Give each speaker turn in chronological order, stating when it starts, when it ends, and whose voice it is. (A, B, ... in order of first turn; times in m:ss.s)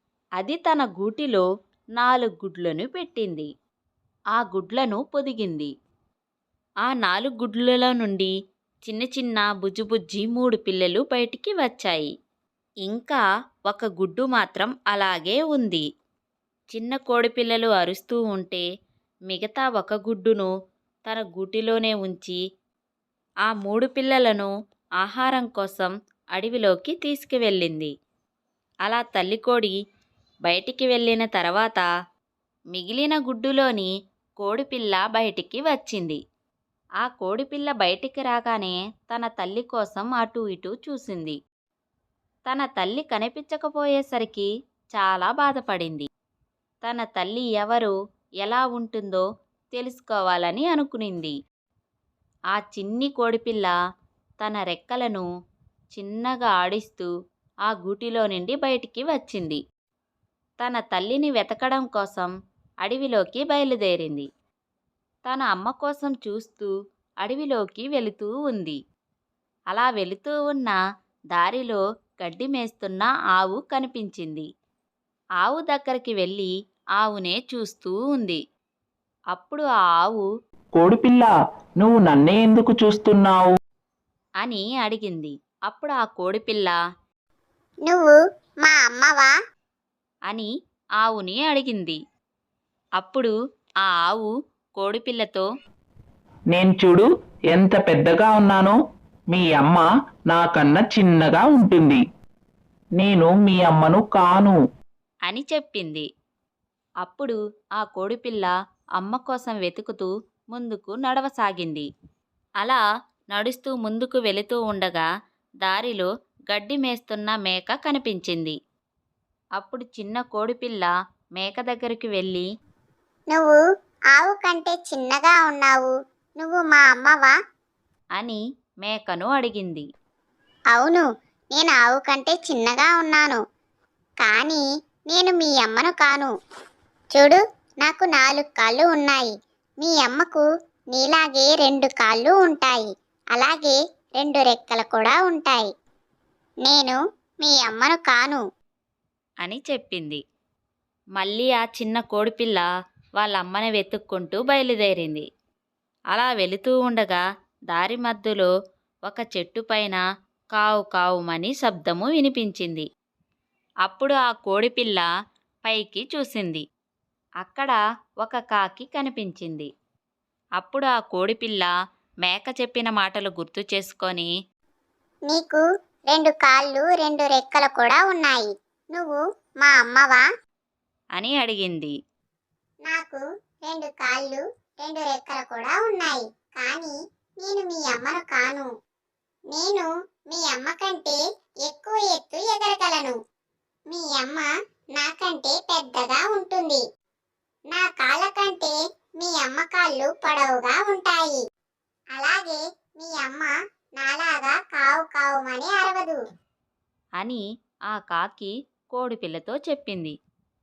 0:00.4-0:01.4 A
0:02.0-0:03.5 A
0:04.3-0:05.7 A
0:06.8-0:08.3 A
0:08.8-0:12.1 A
0:12.8-0:15.8 A
0:16.7-0:18.6 A
0:19.3-0:20.5 A
0:21.1-0:22.4 A
0:23.4-0:24.5 A
0:25.0-0:27.9 A
0:28.8-0:29.8 A
0:30.4-0:31.9 A
0:32.7-0:36.2 A
0:37.0-0:41.4 A
0:42.5-0:46.1 A
0:46.8-0:51.4 A
0:52.5-0:53.7 A
0:54.4-0:55.3 A
0:55.9-0:57.1 A
0:57.7-0:59.6 A
1:00.6-1:02.3 A
1:02.8-1:04.3 A
1:05.3-1:08.8 A
1:09.7-1:10.8 A
1:11.3-1:14.5 A
1:15.4-1:18.4 A
1:19.3-1:20.3 A
1:20.7-1:23.6 B
1:24.4-1:26.8 A
1:27.8-1:29.3 C
1:31.0-1:32.0 A
1:33.0-1:33.3 A
1:33.8-1:35.5 A
1:36.5-1:38.8 B
1:39.3-1:42.0 B
1:43.0-1:44.6 B
1:45.3-1:46.1 A
1:47.0-1:51.9 A
1:53.3-1:55.1 A
1:55.6-1:58.6 A
1:59.6-2:02.5 A
2:03.3-2:03.6 C
2:04.1-2:07.3 C
2:08.2-2:09.8 A
2:10.7-2:13.4 C
2:14.2-2:16.3 C
2:17.1-2:19.3 C
2:19.8-2:25.7 C
2:26.6-2:28.4 C
2:29.4-2:30.2 A
2:31.2-2:32.6 A
2:33.2-2:35.2 A
2:36.1-2:38.5 A
2:39.1-2:40.0 A
2:40.5-2:42.9 A
2:43.8-2:45.1 A
2:45.6-2:46.6 A
2:47.4-2:49.7 A
2:50.6-2:51.7 A
2:52.2-2:54.3 A
2:55.3-3:00.2 C
3:01.2-3:01.9 A
3:02.9-3:08.7 C
3:09.5-3:13.2 C
3:13.9-3:16.8 C
3:17.7-3:21.4 C
3:22.1-3:26.2 C
3:27.2-3:30.1 A